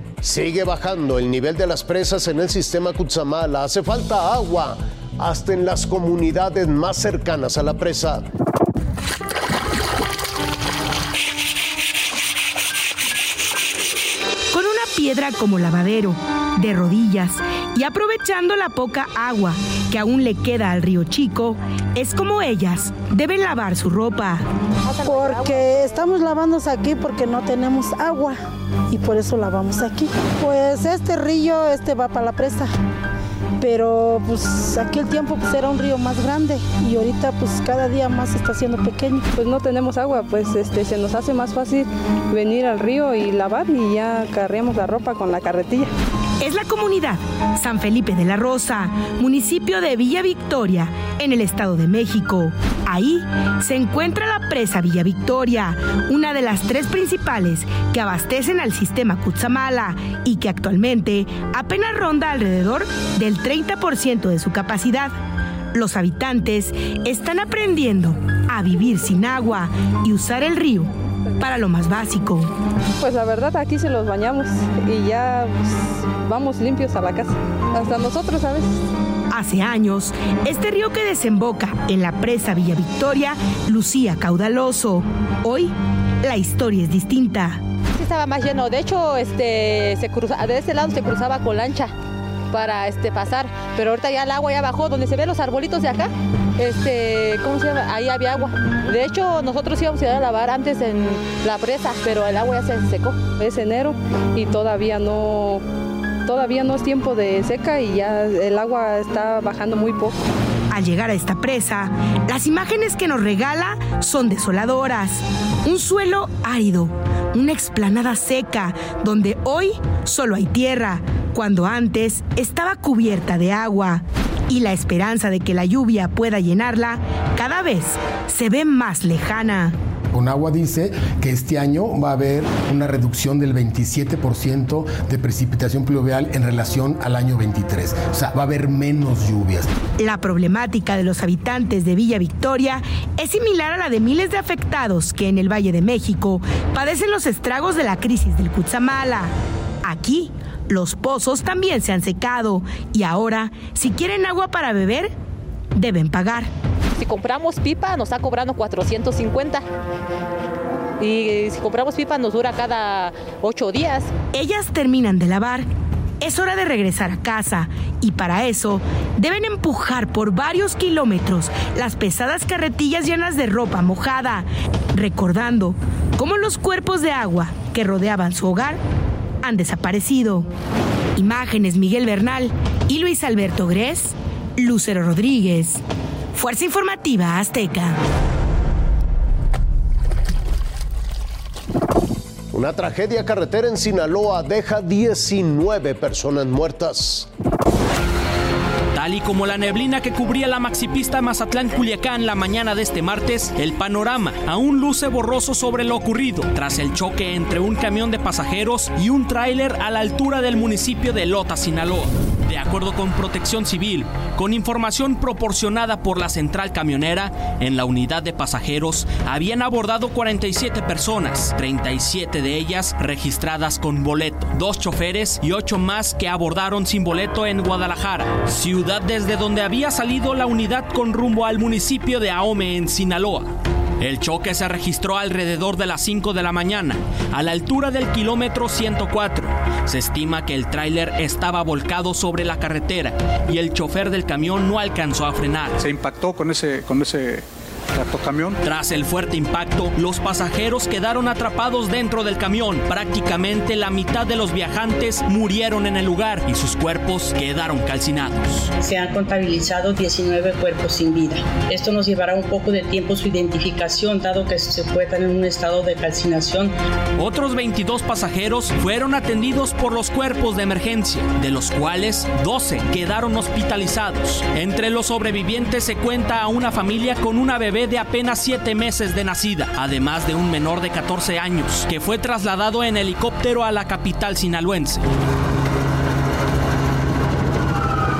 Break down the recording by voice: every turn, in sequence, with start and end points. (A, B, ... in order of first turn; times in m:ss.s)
0:00.2-0:08.2 A
0:14.5-0:24.4 B
0:25.0-0:28.4 C
0:28.9-0:32.7 C
0:33.6-0:39.2 C
0:39.3-0:45.9 D
0:46.4-1:05.1 B
1:05.7-1:12.5 B
1:13.0-1:18.6 D
1:19.3-1:25.7 B
1:26.2-1:27.6 B
1:27.9-1:31.9 E
1:32.5-1:43.2 E
1:43.4-1:45.6 D
1:46.2-1:50.2 D
1:50.7-2:09.7 B
2:10.1-2:19.7 F
2:20.0-2:29.3 B
2:29.8-2:35.1 B
2:35.8-2:36.5 B
2:36.9-2:39.6 E
2:41.0-2:44.1 E
2:44.3-2:45.6 B
2:46.2-2:58.8 B
2:59.4-3:00.4 B
3:01.1-3:05.8 B
3:06.3-3:08.0 B
3:12.5-3:17.3 A
3:18.9-4:05.8 G
4:05.8-4:08.6 H
4:08.6-4:18.7 G
4:18.8-4:26.7 I
4:27.2-4:45.0 G